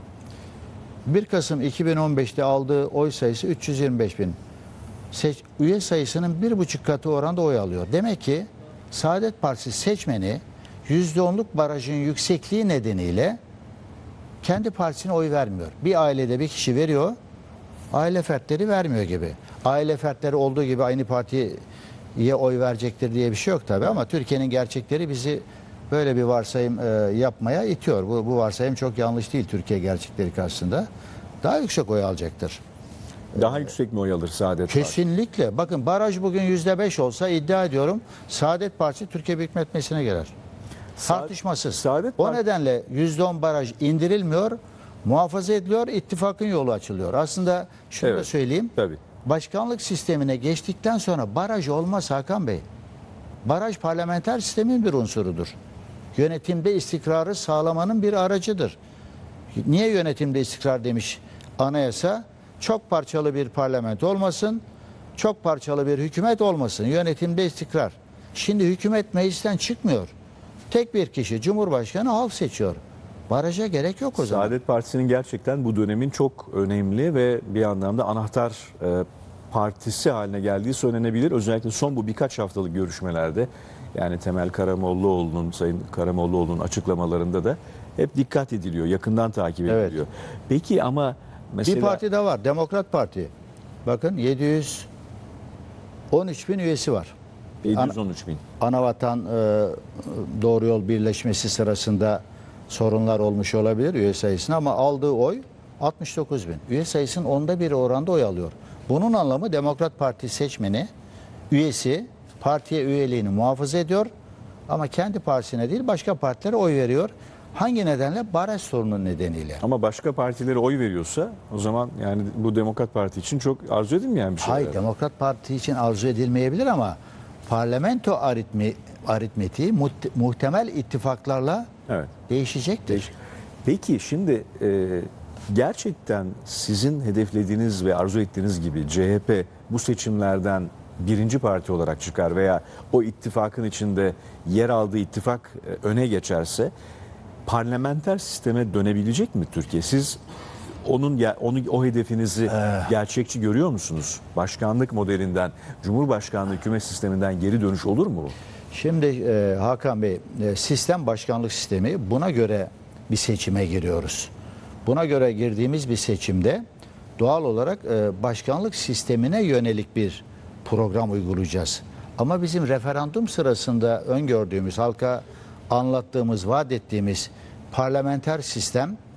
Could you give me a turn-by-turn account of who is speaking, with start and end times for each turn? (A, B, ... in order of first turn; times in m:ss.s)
0:01.0-0:04.4 A
0:05.1-0:13.4 A
0:14.4-0:17.2 A
0:17.9-0:21.6 A
0:22.2-0:30.9 A
0:31.4-0:32.6 A
0:33.3-0:35.0 B
0:34.7-0:40.3 A
0:41.0-0:42.4 B
0:41.0-0:52.6 A
0:48.0-0:49.0 B
0:53.4-0:55.6 A
0:56.1-0:58.8 A
0:59.5-1:04.6 A
1:05.2-1:10.1 A
1:10.7-1:14.5 A
1:14.2-1:32.0 B
1:29.7-1:30.0 A
1:31.6-1:33.3 A
1:33.8-1:34.9 A
1:36.1-1:37.1 A
1:37.6-1:38.4 B
1:37.7-1:38.0 A
1:38.6-1:50.9 A
1:51.5-1:54.1 A
1:54.7-1:59.6 A
1:59.6-2:04.8 B
2:04.4-2:11.7 A
2:11.9-2:12.1 B
2:12.3-2:13.1 A
2:13.6-2:26.7 B
2:27.4-2:30.2 B
2:30.8-2:38.3 B
2:38.7-2:44.3 A
2:44.8-2:46.6 A
2:47.2-2:59.0 A